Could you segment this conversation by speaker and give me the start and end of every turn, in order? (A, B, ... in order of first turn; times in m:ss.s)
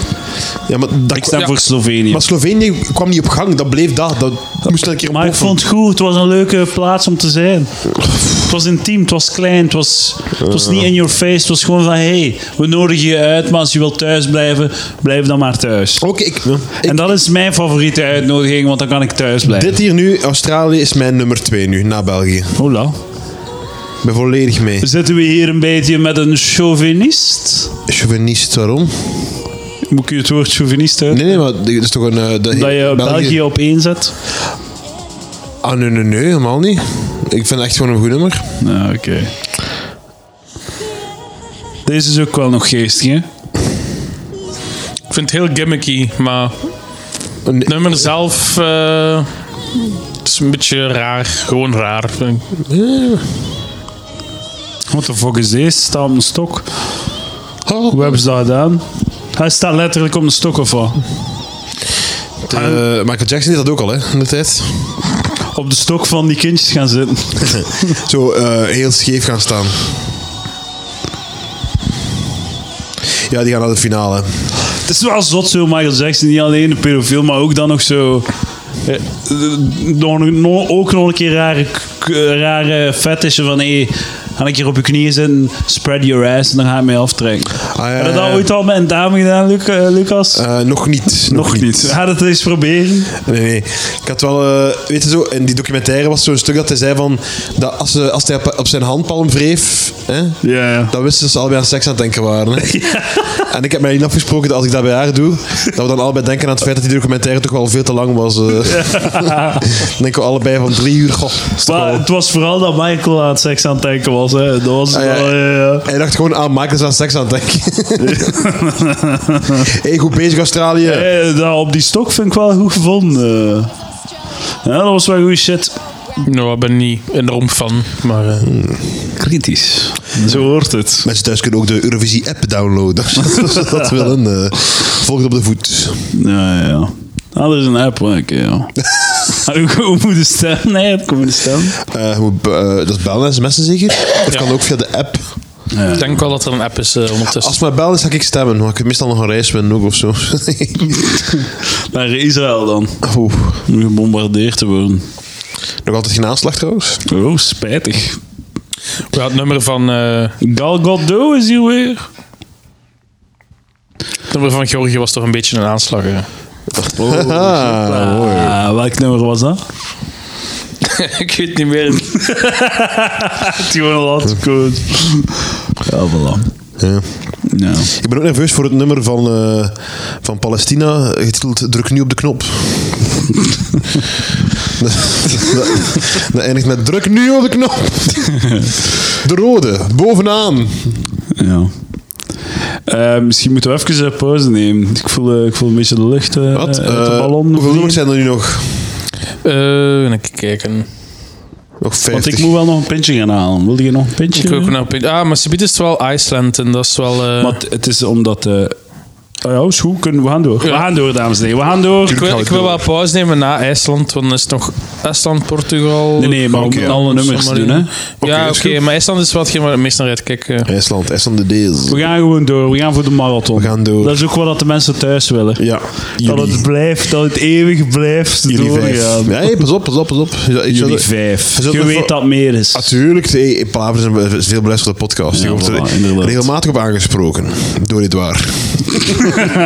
0:00.7-0:01.5 A
0:01.1-0:02.2 B
0:02.0-0:05.6 A
0:04.7-0:16.0 B
0:10.4-0:10.9 A
0:16.0-0:17.1 A
0:16.8-0:19.8 B
0:19.4-0:22.6 A
0:22.6-0:23.0 B
0:24.0-0:24.9 A
0:24.8-0:27.7 B
0:27.9-0:29.0 A
0:29.9-0:31.3 B
0:31.1-0:33.4 A
0:32.5-0:34.1 B
0:35.6-0:38.5 A
0:38.6-0:39.3 B
0:41.8-0:43.2 B
0:45.1-0:46.7 C
0:47.4-0:48.1 A
0:47.6-0:49.4 C
0:50.2-0:52.4 C
0:52.7-0:53.2 A
0:54.9-0:56.7 B
0:57.6-0:58.2 A
0:57.9-1:01.0 B
1:02.4-1:05.0 A
1:02.5-1:02.8 B
1:05.5-1:07.7 B
1:07.6-1:09.9 A
1:13.3-1:14.4 A
1:14.8-1:18.3 B
1:18.8-1:30.4 B
1:27.7-1:28.5 A
1:30.3-1:32.0 A
1:31.3-1:33.1 B
1:33.2-1:52.0 A
1:40.4-1:40.9 B
1:42.6-1:43.4 B
1:48.7-1:49.6 B
1:51.6-1:55.9 B
1:54.9-1:58.3 A
1:58.0-1:59.6 B
1:59.7-2:01.1 A
2:00.8-2:03.7 B
2:04.6-2:05.7 B
2:06.2-2:08.5 C
2:08.4-2:08.8 A
2:09.2-2:11.1 B
2:11.0-2:16.1 A
2:16.1-2:21.8 B
2:21.9-2:25.3 A
2:25.7-2:26.1 B
2:26.0-2:27.5 C
2:27.3-2:31.0 A
2:31.9-2:33.1 B
2:33.0-2:33.6 A
2:33.6-2:35.0 B
2:35.8-2:37.0 A
2:37.1-2:38.2 B
2:39.1-2:40.4 C
2:40.4-2:42.0 B
2:44.3-2:46.3 C
2:46.8-2:48.6 A
2:46.9-2:49.6 B
2:50.8-2:52.3 C
2:52.2-2:56.5 B
2:56.8-3:03.1 A
2:57.4-2:57.9 B
3:04.8-3:08.6 A
3:09.2-3:11.0 A
3:11.4-3:11.7 B
3:12.9-3:18.0 B
3:16.5-3:19.0 A
3:19.4-3:20.9 C
3:21.8-3:22.5 A
3:22.1-3:24.7 B
3:24.3-3:27.6 C
3:27.4-3:28.8 B
3:29.4-3:32.2 B
3:32.0-3:32.8 A
3:32.1-3:40.7 C
3:36.2-3:37.9 B
3:36.5-3:36.9 A
3:38.2-3:38.8 A
3:40.6-3:42.0 A
3:41.9-3:49.6 B
3:43.6-3:44.2 A
3:45.6-3:46.6 A
3:48.5-3:52.2 A
3:50.7-3:52.9 B
3:52.7-3:59.4 A
3:55.3-3:56.5 B